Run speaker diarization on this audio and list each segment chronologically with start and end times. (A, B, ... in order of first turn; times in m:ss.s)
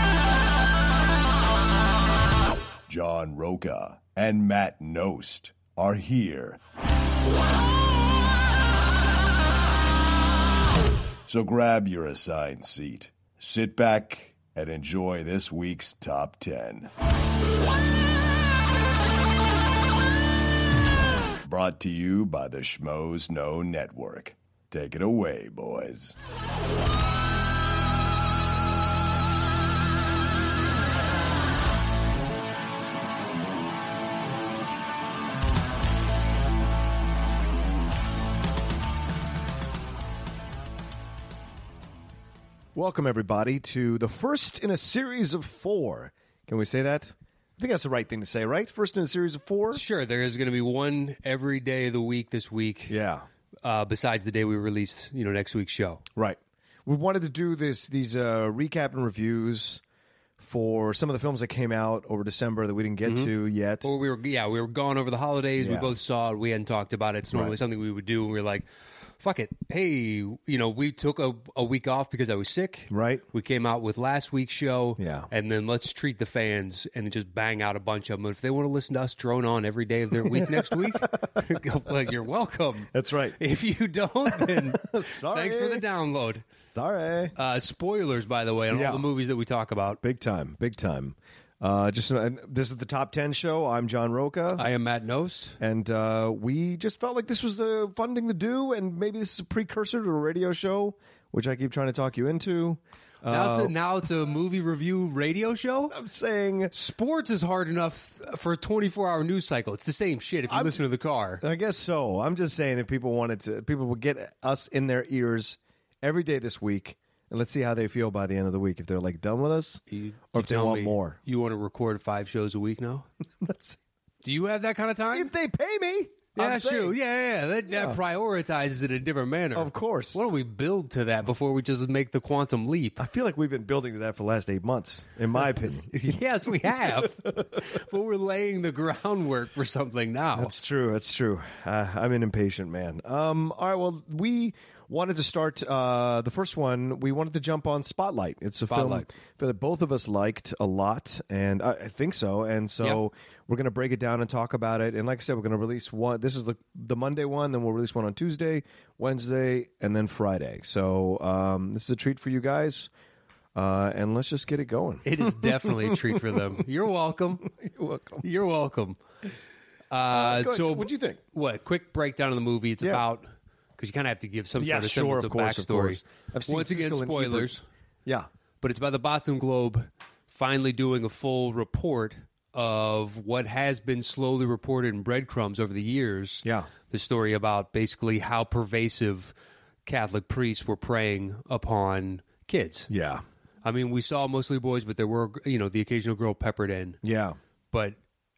0:02.9-0:06.6 A
0:11.3-0:16.9 A
0:21.4-0:26.1 A
0:42.7-0:49.8 B
0:49.7-0:53.0 C
0:52.9-0:53.2 B
0:53.6-0:56.0 C
0:56.2-0:59.8 B
1:00.4-1:03.9 B
1:03.0-1:03.3 C
1:03.8-1:08.6 C
1:05.6-1:05.9 B
1:09.2-1:26.5 C
1:12.9-1:13.2 B
1:15.0-1:15.3 B
1:20.3-1:21.3 B
1:22.9-1:23.4 B
1:24.3-1:25.8 B
1:26.5-1:27.3 B
1:27.4-1:30.0 C
1:28.7-1:29.1 B
1:30.0-1:34.6 B
1:34.6-1:35.6 C
1:35.6-1:43.7 B
1:43.3-1:46.0 C
1:45.9-1:46.7 B
1:46.7-1:51.4 C
1:50.5-1:50.8 B
1:51.4-2:01.2 B
1:59.9-2:03.1 C
2:03.4-2:03.8 B
2:04.2-2:05.3 C
2:05.1-2:06.9 B
2:06.4-2:13.0 C
2:07.7-2:08.0 B
2:09.5-2:10.3 B
2:13.0-2:17.6 B
2:15.4-2:20.5 C
2:20.3-2:42.9 B
2:28.7-2:29.1 C
2:43.5-2:46.6 B
2:45.0-2:47.5 C
2:47.5-2:48.2 B
2:48.2-2:49.0 C
2:49.9-2:53.3 C
2:50.1-2:51.2 B
2:53.8-2:57.6 C
2:54.6-2:57.5 B
2:58.6-3:09.3 C
3:06.4-3:06.7 B
3:09.8-3:12.9 C
3:12.9-3:13.2 B
3:13.6-3:17.0 C
3:17.0-3:17.4 B
3:17.7-3:18.0 C